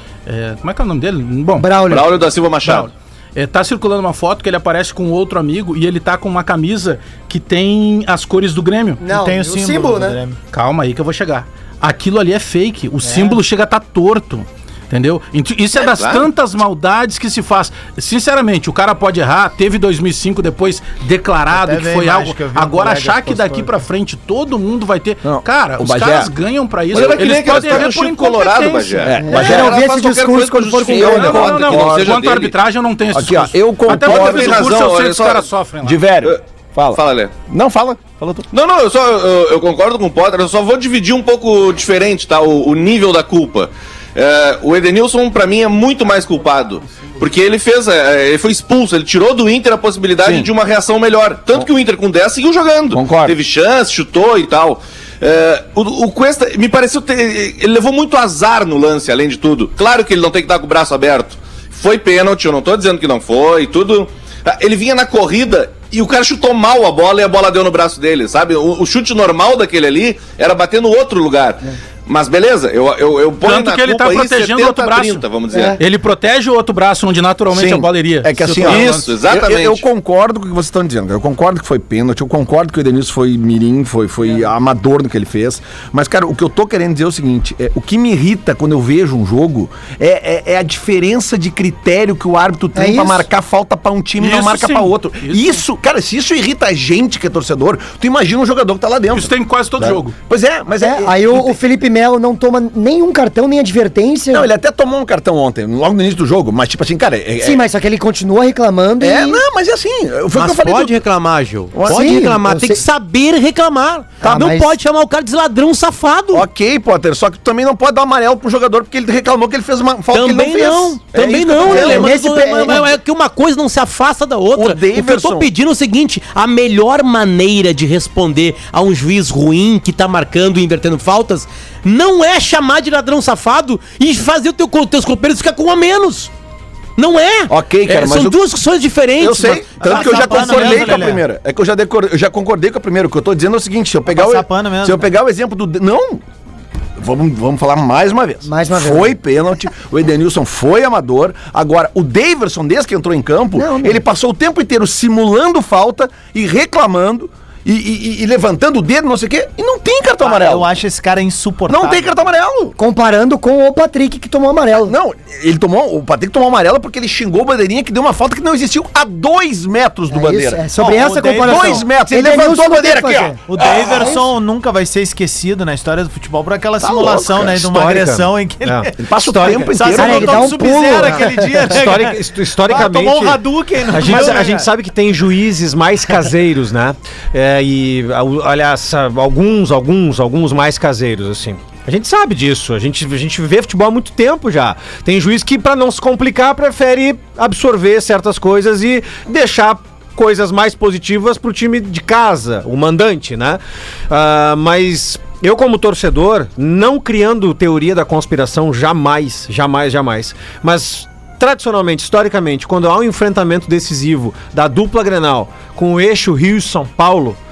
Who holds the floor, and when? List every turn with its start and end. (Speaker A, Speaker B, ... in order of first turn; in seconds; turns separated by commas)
Speaker A: 0.3-1.7, Speaker B: 1.6-2.3, Speaker C: 1.9-2.9, Speaker A: 2.6-9.0, Speaker B: 9.0-10.2, Speaker D: 9.1-10.4, Speaker A: 10.5-29.1, Speaker C: 15.8-16.3, Speaker D: 21.5-23.7, Speaker E: 25.2-26.3, Speaker C: 26.9-32.5, Speaker E: 29.1-32.2, Speaker B: 29.2-31.4, Speaker A: 30.9-36.0, Speaker E: 33.1-34.8, Speaker C: 33.9-35.5, Speaker E: 35.8-38.5, Speaker C: 36.9-37.4, Speaker C: 38.5-75.8, Speaker E: 50.2-50.5, Speaker E: 52.9-53.4, Speaker A: 73.4-75.3, Speaker B: 75.5-75.8, Speaker A: 75.8-79.1, Speaker E: 77.5-101.6, Speaker C: 78.6-79.8, Speaker B: 92.8-93.3, Speaker A: 94.2-95.6, Speaker A: 99.1-100.2, Speaker B: 100.8-104.5, Speaker E: 104.3-107.6, Speaker B: 107.4-109.4, Speaker E: 109.0-111.0, Speaker F: 110.3-116.5, Speaker E: 111.8-112.3, Speaker B: 111.8-112.8, Speaker B: 114.2-114.7, Speaker E: 116.3-122.9, Speaker F: 120.1-136.3, Speaker B: 121.6-122.9, Speaker E: 124.5-125.5, Speaker F: 137.0-139.8, Speaker E: 137.5-138.4, Speaker E: 139.2-146.2, Speaker D: 139.8-141.2, Speaker D: 144.1-145.1, Speaker E: 147.0-160.7, Speaker B: 148.4-149.2, Speaker B: 153.6-154.0, Speaker D: 160.2-162.2, Speaker E: 161.7-162.8, Speaker B: 162.8-164.9, Speaker E: 164.8-170.7, Speaker B: 170.1-173.4, Speaker D: 170.7-171.9, Speaker E: 171.4-174.1, Speaker D: 173.5-184.7, Speaker B: 174.0-174.3, Speaker E: 176.8-177.5, Speaker G: 177.4-179.8, Speaker E: 179.0-180.7, Speaker B: 179.9-181.6, Speaker G: 181.7-217.4